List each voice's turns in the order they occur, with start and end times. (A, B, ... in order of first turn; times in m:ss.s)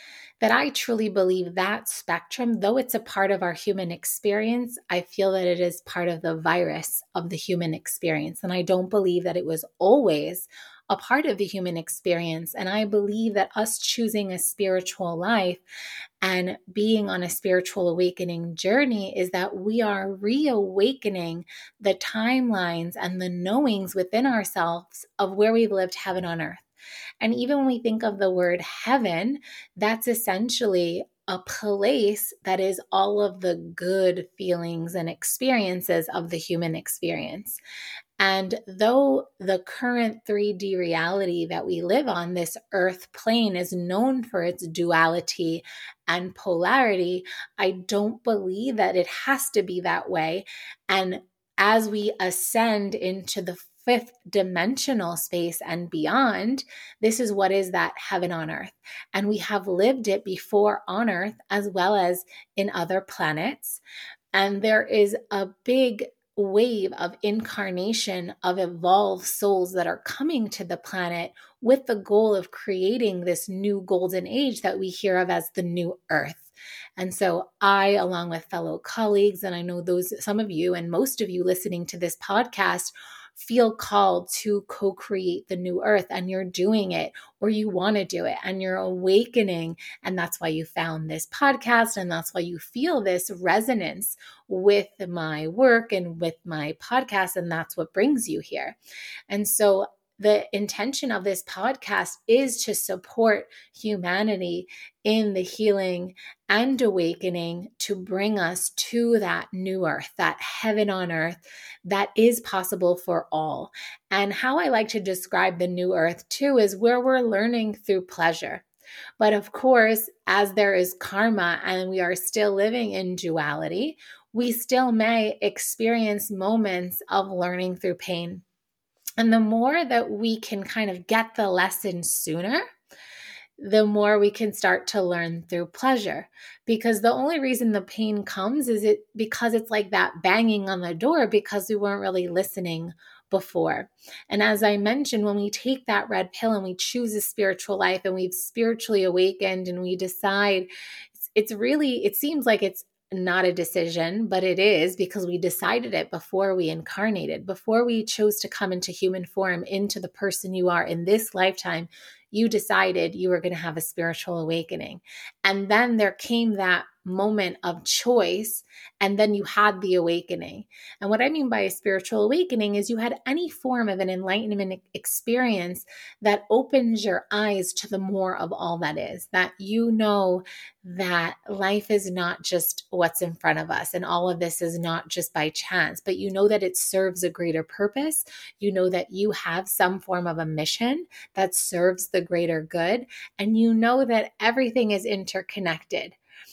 0:00.4-0:15.6 A
0:16.2-0:26.6 A
0:27.2-0:37.6 A
0:38.2-1:03.8 A
1:04.3-1:38.8 A
1:39.3-1:58.6 A
1:59.2-2:08.4 A
2:09.2-2:12.6 A
2:13.6-2:30.7 A
2:31.2-3:16.2 A